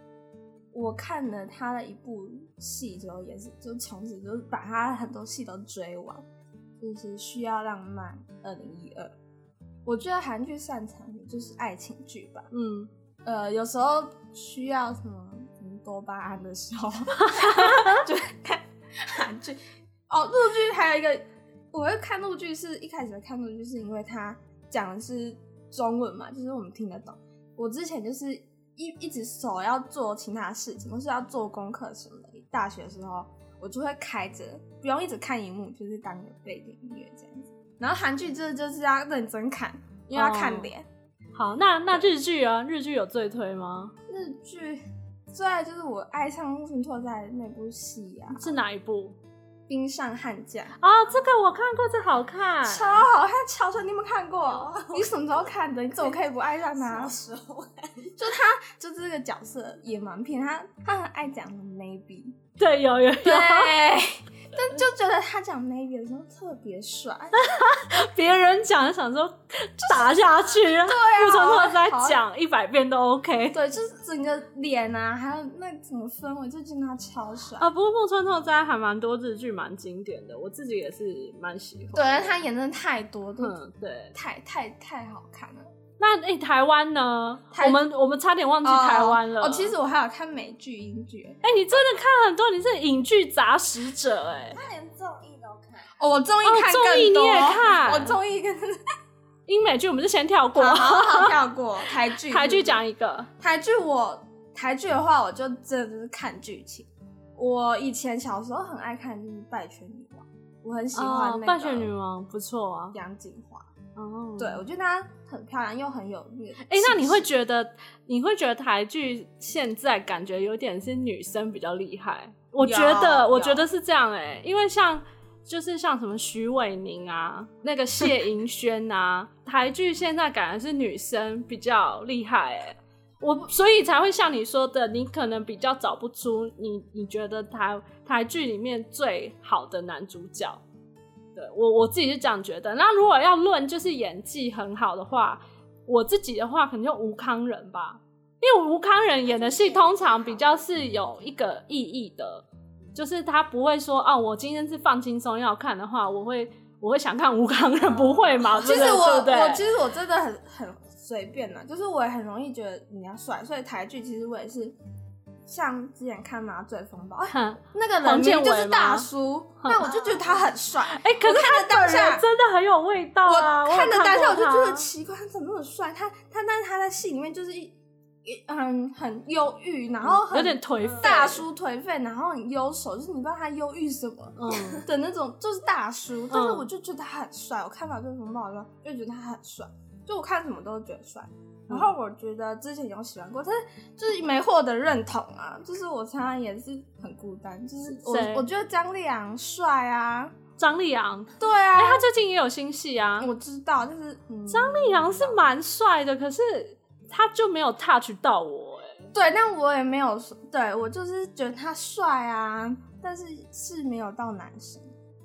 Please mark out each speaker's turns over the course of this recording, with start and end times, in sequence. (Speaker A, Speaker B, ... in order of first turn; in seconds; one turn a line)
Speaker A: 0.7-6.2
Speaker A: 6.8-9.1
Speaker A: 9.8-12.5
Speaker B: 12.5-12.9
Speaker A: 13.2-40.9
Speaker B: 17.2-18.0
Speaker B: 40.1-40.7
Speaker B: 41.3-43.9
Speaker A: 44.1-48.5
Speaker B: 48.3-49.2
Speaker A: 49.7-50.8
Speaker B: 50.8-53.1
Speaker A: 52.6-57.1
Speaker C: 54.5-55.1
Speaker C: 56.8-58.3
Speaker A: 58.2-62.4
Speaker B: 62.6-63.8
Speaker A: 63.2-67.5
Speaker B: 67.3-73.6
Speaker A: 69.9-72.2
Speaker A: 73.5-77.7
Speaker B: 77.6-82.4
Speaker A: 81.9-83.5
Speaker B: 83.4-84.1
Speaker A: 84.1-85.7
Speaker B: 86.0-89.7
Speaker A: 87.5-87.8
Speaker A: 88.6-91.4
Speaker B: 91.4-94.6
Speaker C: 94.5-95.9
Speaker A: 96.0-98.8
Speaker B: 96.4-98.2
Speaker B: 99.5-101.4
Speaker A: 100.5-102.8
Speaker B: 102.1-103.3
Speaker A: 103.4-111.9
Speaker B: 110.9-113.0
Speaker A: 112.9-113.7
Speaker B: 114.0-114.6
Speaker A: 114.4-117.2
Speaker B: 116.6-140.6
Speaker A: 122.6-123.7
Speaker B: 141.3-159.7
Speaker C: 149.4-150.5
Speaker A: 158.4-164.8
Speaker A: 165.4-172.2
Speaker B: 167.3-169.1
Speaker B: 169.6-169.9
Speaker B: 170.8-174.9
Speaker A: 173.2-200.3
Speaker B: 180.0-181.4
Speaker B: 184.4-184.9
Speaker B: 186.3-186.7
Speaker B: 197.9-198.4
Speaker B: 200.6-203.3
Speaker A: 201.4-202.1
Speaker A: 203.2-205.5
Speaker B: 204.5-209.1
Speaker A: 209.1-214.9